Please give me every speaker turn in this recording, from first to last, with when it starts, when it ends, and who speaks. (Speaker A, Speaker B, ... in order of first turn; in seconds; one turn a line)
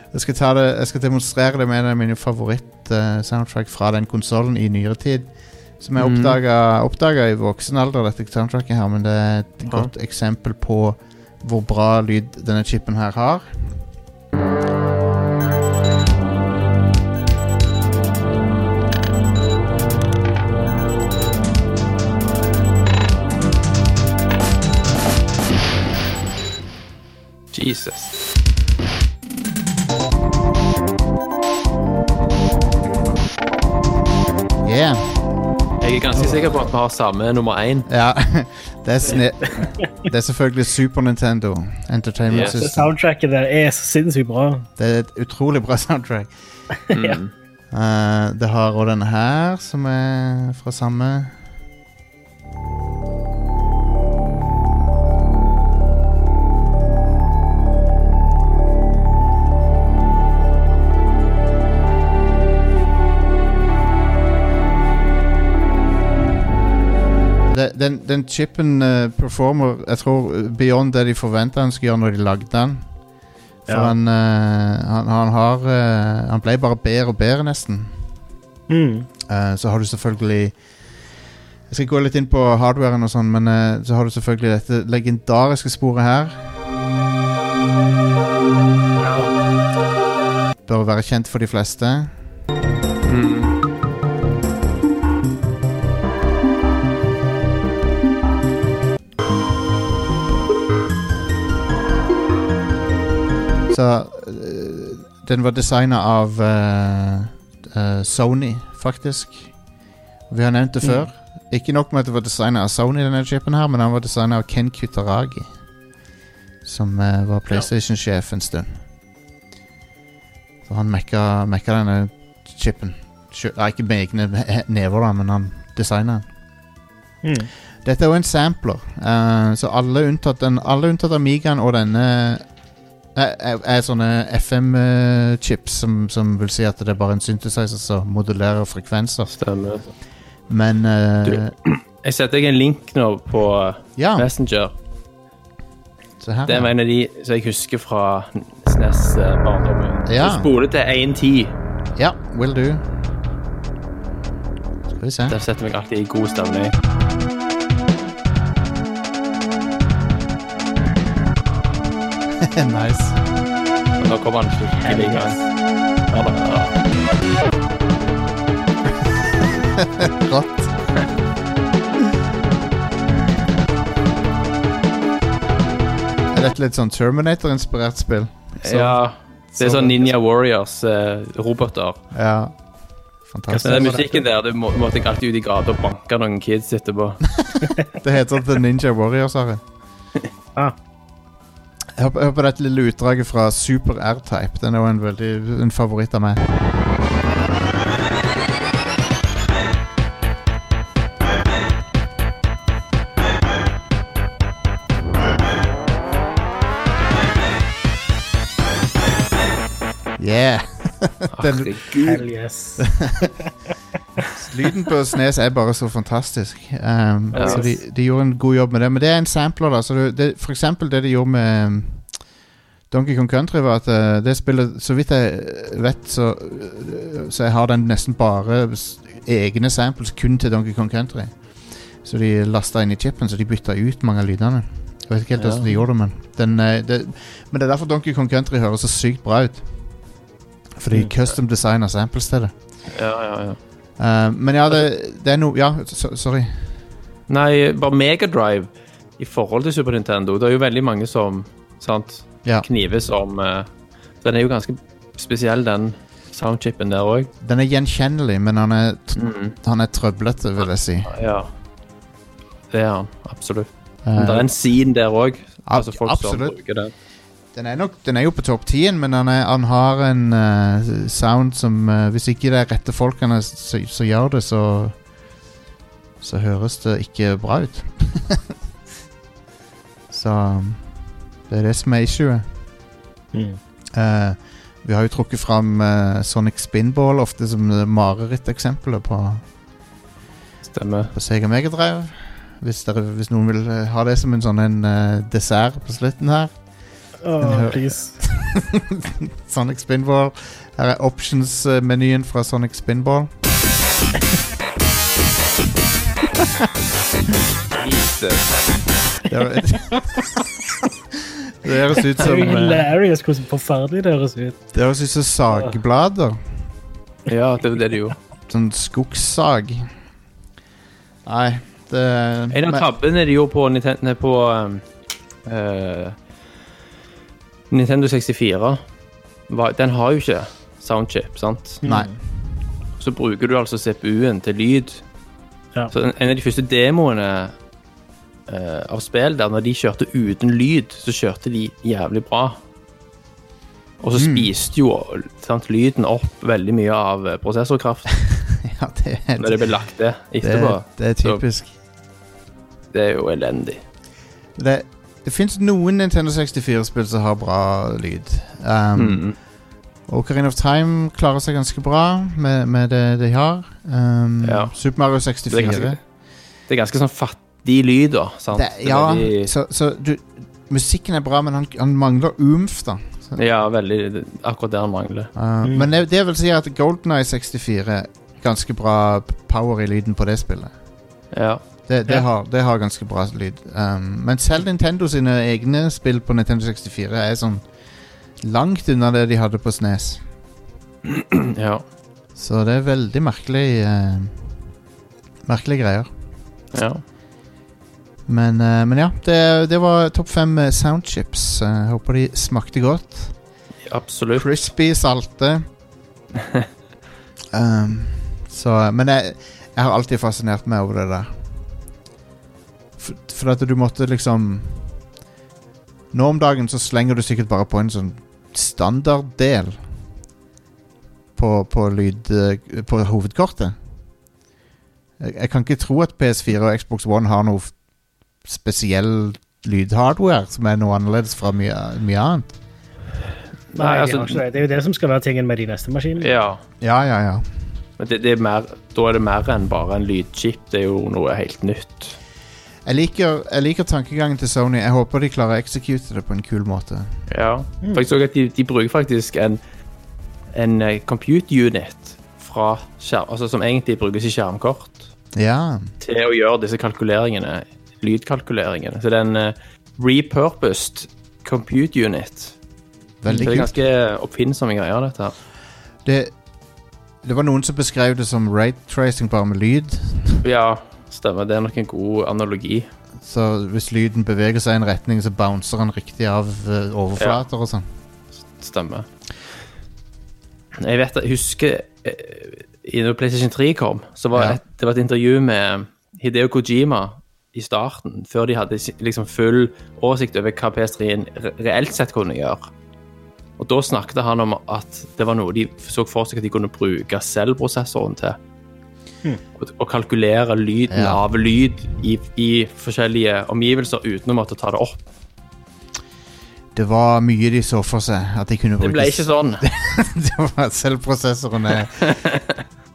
Speaker A: 0.1-13.8
Speaker B: 6.0-6.4
Speaker B: 27.5-28.1
Speaker A: 34.6-35.2
Speaker B: 35.8-37.9
Speaker A: 37.9-42.8
Speaker B: 42.3-42.6
Speaker C: 42.5-44.7
Speaker A: 44.8-46.3
Speaker C: 46.9-47.2
Speaker B: 46.9-47.3
Speaker A: 47.7-51.4
Speaker A: 67.5-72.9
Speaker C: 73.7-73.9
Speaker A: 73.7-78.0
Speaker C: 78.7-79.1
Speaker A: 79.3-80.5
Speaker A: 81.7-86.4
Speaker C: 89.0-89.3
Speaker A: 90.7-92.1
Speaker B: 93.0-93.5
Speaker A: 103.7-109.5
Speaker A: 110.3-115.5
Speaker C: 110.8-111.1
Speaker A: 116.6-118.8
Speaker A: 120.7-126.2
Speaker C: 127.2-127.5
Speaker A: 127.8-132.4
Speaker A: 133.1-139.3
Speaker B: 139.3-139.9
Speaker A: 140.5-141.5
Speaker B: 141.2-144.7
Speaker A: 143.9-144.3
Speaker A: 146.2-146.7
Speaker B: 146.4-151.5
Speaker A: 150.0-150.5
Speaker A: 151.9-152.8
Speaker A: 154.9-155.3
Speaker B: 155.3-156.7
Speaker A: 162.4-163.2
Speaker B: 164.0-165.4
Speaker C: 164.8-165.4
Speaker B: 166.1-166.7
Speaker A: 169.0-170.7
Speaker A: 176.3-179.0
Speaker B: 178.6-182.0
Speaker A: 179.5-180.1
Speaker A: 182.1-182.5
Speaker A: 183.2-184.0
Speaker C: 183.5-184.2
Speaker B: 183.6-187.2
Speaker A: 187.3-189.6
Speaker A: 191.9-196.4
Speaker A: 210.2-212.2
Speaker B: 211.3-212.1
Speaker C: 212.0-213.5
Speaker A: 212.8-213.3
Speaker A: 214.4-222.1
Speaker C: 217.3-217.8
Speaker B: 217.3-217.7
Speaker A: 222.9-239.7
Speaker B: 235.4-235.7
Speaker A: 240.8-242.5
Speaker B: 242.9-243.6
Speaker A: 244.0-246.7
Speaker B: 247.3-253.7
Speaker B: 254.2-257.3
Speaker A: 257.4-261.1
Speaker B: 259.2-259.6
Speaker B: 261.1-261.5
Speaker B: 262.7-266.9
Speaker A: 264.0-264.5
Speaker A: 265.6-266.6
Speaker A: 267.5-274.9
Speaker A: 276.2-278.5
Speaker A: 280.1-280.9
Speaker A: 281.5-282.5
Speaker C: 283.3-283.6
Speaker A: 283.9-289.4
Speaker B: 290.7-291.1
Speaker A: 291.1-296.5
Speaker C: 297.2-298.2
Speaker A: 297.4-303.3
Speaker A: 306.4-306.7
Speaker B: 307.8-308.6
Speaker A: 309.3-310.4
Speaker A: 311.1-312.8
Speaker C: 312.2-314.6
Speaker A: 314.7-316.4
Speaker B: 317.3-318.1
Speaker A: 318.5-319.9
Speaker A: 321.2-322.9
Speaker B: 322.5-324.8
Speaker B: 325.4-326.1
Speaker B: 327.7-328.8
Speaker B: 329.5-331.8
Speaker C: 331.8-332.1
Speaker A: 331.8-332.1
Speaker B: 333.0-335.0
Speaker B: 335.9-337.5
Speaker B: 338.5-342.6
Speaker B: 344.0-348.1
Speaker A: 344.1-344.5
Speaker A: 348.3-349.8
Speaker B: 349.4-351.4
Speaker A: 350.4-351.7
Speaker B: 352.9-353.8
Speaker A: 354.6-359.2
Speaker B: 358.9-359.4
Speaker A: 360.1-366.0
Speaker B: 364.4-364.7
Speaker B: 365.5-366.0
Speaker B: 366.7-369.5
Speaker A: 368.5-373.4
Speaker B: 373.4-375.3
Speaker A: 375.3-380.7
Speaker B: 381.3-381.6
Speaker A: 381.9-387.6
Speaker A: 388.4-390.2
Speaker B: 391.1-391.8
Speaker A: 392.4-394.5
Speaker A: 395.4-396.1
Speaker B: 396.7-397.0
Speaker A: 398.3-403.3
Speaker B: 403.9-404.5
Speaker A: 404.3-405.6
Speaker A: 407.5-411.4
Speaker A: 413.0-415.0
Speaker A: 416.1-419.8
Speaker A: 421.4-423.8
Speaker A: 425.2-427.7
Speaker A: 428.4-432.5
Speaker B: 433.7-434.4
Speaker C: 433.8-436.3
Speaker B: 436.2-436.6
Speaker A: 436.8-437.4
Speaker B: 438.0-442.2
Speaker A: 442.8-447.2
Speaker B: 447.3-449.6
Speaker B: 450.5-455.1
Speaker A: 455.3-455.9
Speaker B: 456.0-462.6
Speaker A: 463.2-463.7
Speaker B: 463.3-465.4
Speaker A: 466.0-466.3
Speaker A: 467.2-470.4
Speaker B: 470.4-472.9
Speaker A: 473.2-477.9
Speaker B: 478.5-479.1
Speaker B: 480.8-492.7
Speaker A: 484.3-484.6
Speaker B: 493.6-498.4
Speaker B: 499.6-505.0
Speaker A: 500.9-501.2
Speaker A: 506.7-512.1
Speaker B: 508.8-509.6
Speaker B: 512.0-512.6